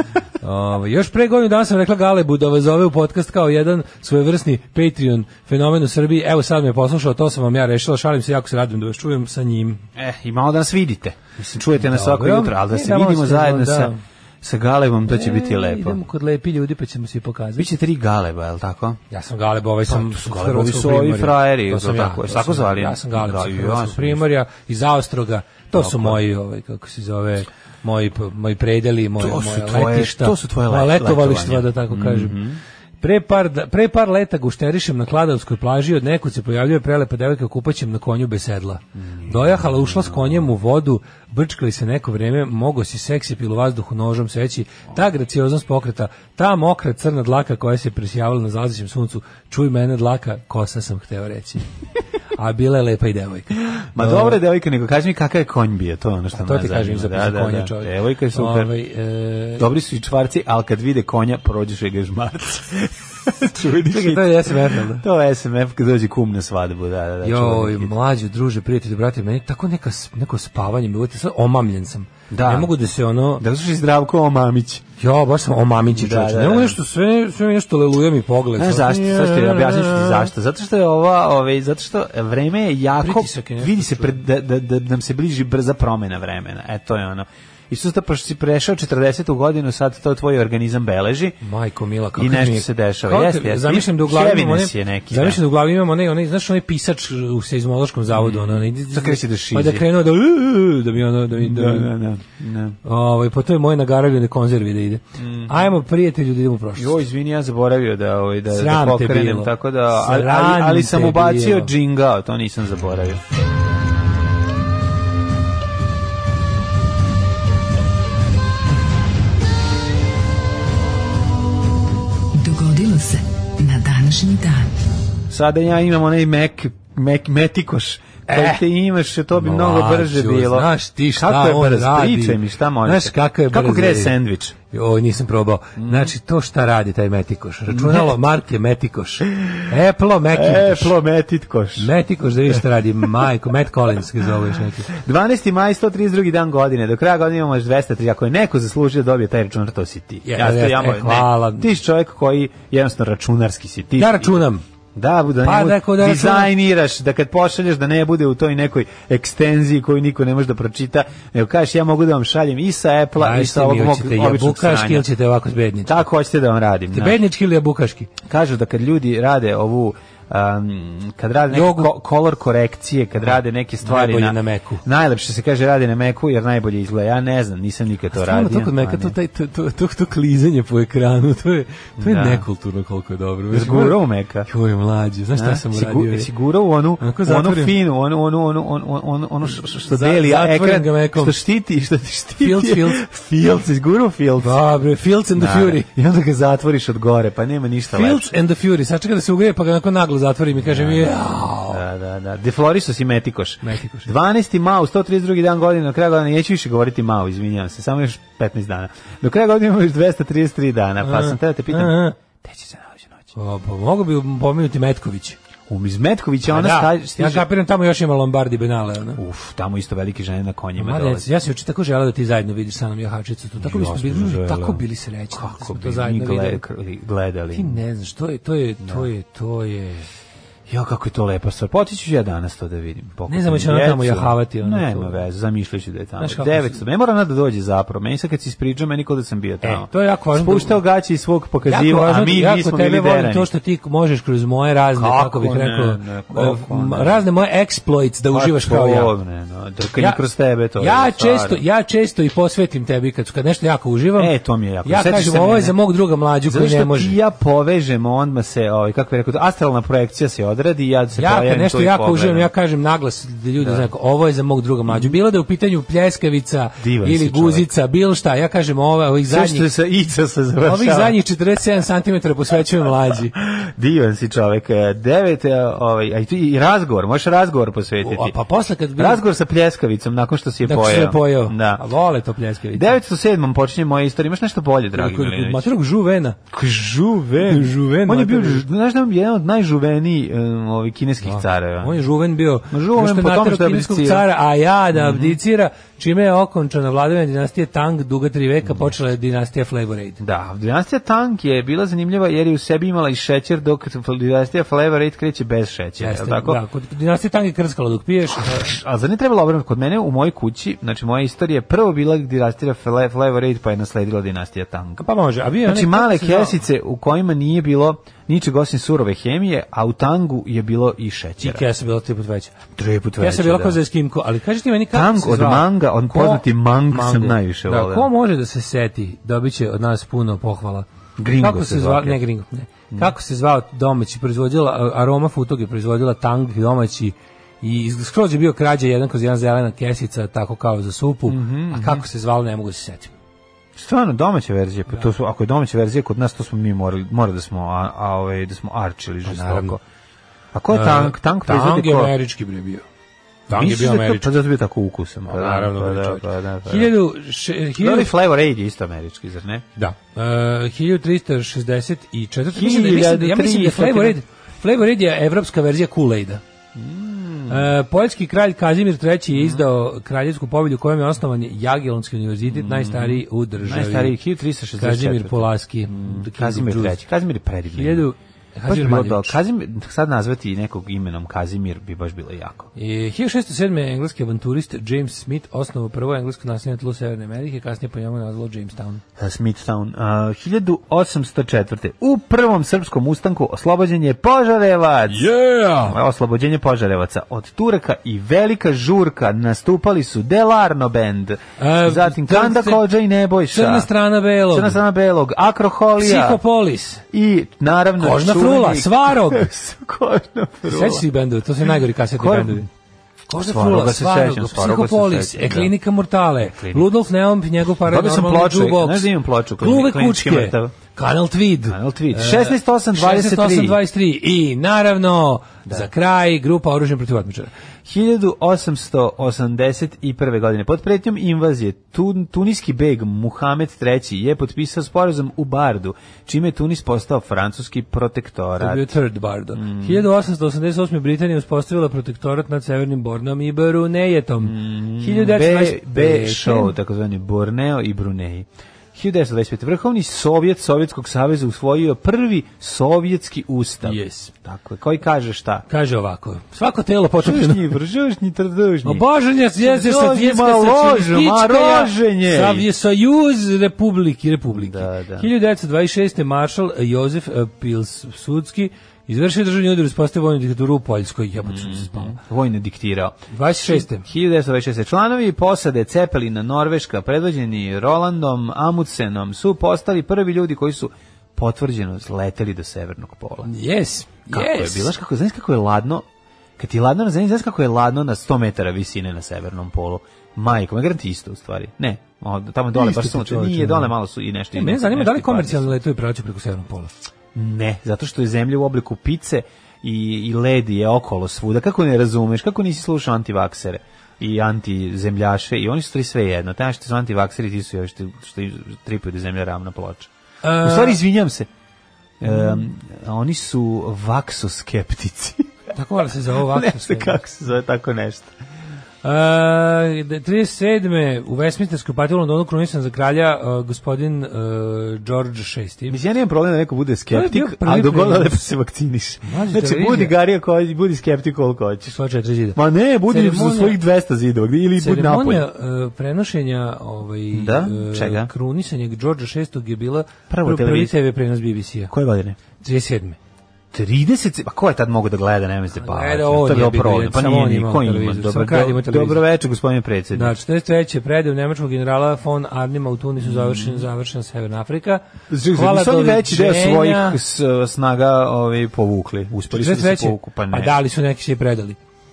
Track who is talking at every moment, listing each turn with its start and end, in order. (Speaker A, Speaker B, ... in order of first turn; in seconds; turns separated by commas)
Speaker A: 0.4-9.8, Speaker B: 10.0-16.0, Speaker A: 11.8-14.0, Speaker A: 15.1-17.7, Speaker B: 17.6-19.0, Speaker A: 19.1-32.4, Speaker B: 19.9-24.2, Speaker B: 25.7-26.2, Speaker B: 29.2-32.6, Speaker A: 33.0-51.6, Speaker B: 39.0-40.5, Speaker A: 52.4-54.4, Speaker B: 53.9-58.7, Speaker A: 56.3-59.7, Speaker B: 59.6-67.9, Speaker A: 63.8-65.0, Speaker A: 67.2-73.4, Speaker B: 72.3-72.7, Speaker B: 73.4-74.8, Speaker A: 75.0-80.3, Speaker B: 75.9-76.8, Speaker B: 78.6-91.4, Speaker A: 83.0-84.2, Speaker A: 91.4-101.9, Speaker B: 92.2-95.4, Speaker B: 98.1-99.8, Speaker B: 101.4-102.8, Speaker A: 102.8-107.0, Speaker B: 105.2-105.7, Speaker B: 106.8-113.2, Speaker A: 108.5-111.7, Speaker C: 122.4-124.7, Speaker B: 125.3-134.6, Speaker A: 128.3-128.6, Speaker A: 129.3-134.2, Speaker A: 134.7-141.0, Speaker B: 135.8-136.1, Speaker B: 137.7-138.2, Speaker B: 139.3-139.6, Speaker B: 140.3-141.9, Speaker A: 141.8-144.9, Speaker B: 144.9-165.1, Speaker A: 150.2-151.7, Speaker A: 154.0-154.6, Speaker A: 155.4-156.5, Speaker A: 163.2-166.0, Speaker B: 165.9-167.2, Speaker A: 166.9-168.1, Speaker B: 168.2-179.2, Speaker A: 171.5-171.9, Speaker A: 173.8-174.8, Speaker A: 178.1-186.3, Speaker B: 182.0-182.5, Speaker B: 183.5-184.5, Speaker B: 185.3-194.6, Speaker A: 187.0-187.8, Speaker A: 189.9-191.4, Speaker A: 192.4-193.0, Speaker A: 194.4-195.9, Speaker B: 195.3-198.3, Speaker A: 197.9-201.8, Speaker B: 200.6-213.3, Speaker A: 203.6-204.1, Speaker A: 211.0-212.2, Speaker A: 213.3-215.4, Speaker B: 215.7-217.5, Speaker A: 216.5-219.2, Speaker B: 219.2-221.3, Speaker A: 220.8-226.6, Speaker B: 223.6-227.8, Speaker A: 227.5-230.1, Speaker B: 228.8-229.1, Speaker B: 230.7-243.5, Speaker A: 233.3-235.1, Speaker A: 236.2-236.8, Speaker A: 239.6-240.8, Speaker A: 241.7-249.1, Speaker B: 244.9-247.2, Speaker B: 248.3-251.6, Speaker A: 250.0-250.2, Speaker A: 250.8-257.2, Speaker B: 254.2-255.8, Speaker B: 256.5-262.5, Speaker A: 261.2-269.7, Speaker B: 263.6-263.9, Speaker B: 264.9-265.1, Speaker B: 266.8-267.7, Speaker B: 269.3-271.2, Speaker A: 270.6-273.4, Speaker B: 273.4-278.4, Speaker A: 278.0-279.2, Speaker B: 279.0-281.8, Speaker A: 280.6-283.0, Speaker B: 282.7-285.7, Speaker A: 285.0-286.4, Speaker B: 286.5-292.0, Speaker A: 287.4-288.6, Speaker A: 291.2-300.2, Speaker B: 292.7-294.3, Speaker B: 294.9-295.4, Speaker B: 298.6-299.0, Speaker B: 300.2-306.6, Speaker A: 306.0-308.8, Speaker B: 308.4-315.0, Speaker A: 315.0-316.6, Speaker B: 315.6-321.7, Speaker A: 321.4-322.6, Speaker B: 322.8-323.8, Speaker A: 323.2-343.1, Speaker B: 324.9-328.1, Speaker B: 331.2-332.2, Speaker B: 341.3-342.1, Speaker B: 343.8-349.8, Speaker A: 349.2-349.8, Speaker B: 350.5-352.2, Speaker A: 350.7-352.8, Speaker A: 353.5-354.4, Speaker B: 353.5-357.0, Speaker A: 355.3-358.1, Speaker B: 357.8-359.7, Speaker A: 359.8-366.4, Speaker B: 362.5-364.2, Speaker B: 366.8-367.7, Speaker A: 367.5-374.2, Speaker B: 369.3-369.6, Speaker B: 372.5-378.1, Speaker A: 374.8-377.0, Speaker A: 377.8-379.4, Speaker B: 378.7-382.7, Speaker A: 382.8-389.0, Speaker B: 389.2-403.9, Speaker A: 395.1-396.0, Speaker A: 401.6-402.9, Speaker A: 403.5-404.8, Speaker B: 404.5-406.4, Speaker A: 406.0-407.0, Speaker B: 407.1-411.1, Speaker A: 408.0-409.5, Speaker A: 410.6-412.7, Speaker B: 412.1-412.7, Speaker A: 413.3-427.5, Speaker B: 413.4-415.8, Speaker B: 416.4-416.9, Speaker B: 417.8-420.8, Speaker B: 421.7-423.8, Speaker B: 427.9-439.0, Speaker A: 438.6-446.7, Speaker B: 439.5-440.1, Speaker B: 444.4-455.7, Speaker A: 453.8-454.3, Speaker A: 455.7-457.6, Speaker B: 457.2-459.1, Speaker A: 458.8-472.2, Speaker B: 459.6-462.7, Speaker B: 464.5-465.3, Speaker B: 471.4-483.5, Speaker A: 473.3-474.1, Speaker A: 483.4-484.9, Speaker B: 484.3-486.1, Speaker B: 486.6-495.8, Speaker A: 492.7-493.9, Speaker A: 494.5-496.9, Speaker B: 497.4-511.5, Speaker A: 510.4-511.0, Speaker B: 512.2-515.5, Speaker A: 515.7-517.2, Speaker B: 516.5-518.3, Speaker A: 519.0-526.0, Speaker B: 525.9-532.0, Speaker A: 527.1-528.4, Speaker A: 529.2-530.1, Speaker A: 531.9-533.8, Speaker B: 532.5-535.5, Speaker A: 534.8-541.9, Speaker B: 537.3-538.3, Speaker B: 540.3-541.0, Speaker B: 541.9-542.4, Speaker A: 542.6-543.2, Speaker B: 543.7-550.4, Speaker A: 545.8-549.2, Speaker A: 550.1-557.2, Speaker B: 553.2-553.9, Speaker B: 555.3-560.8, Speaker A: 559.5-561.8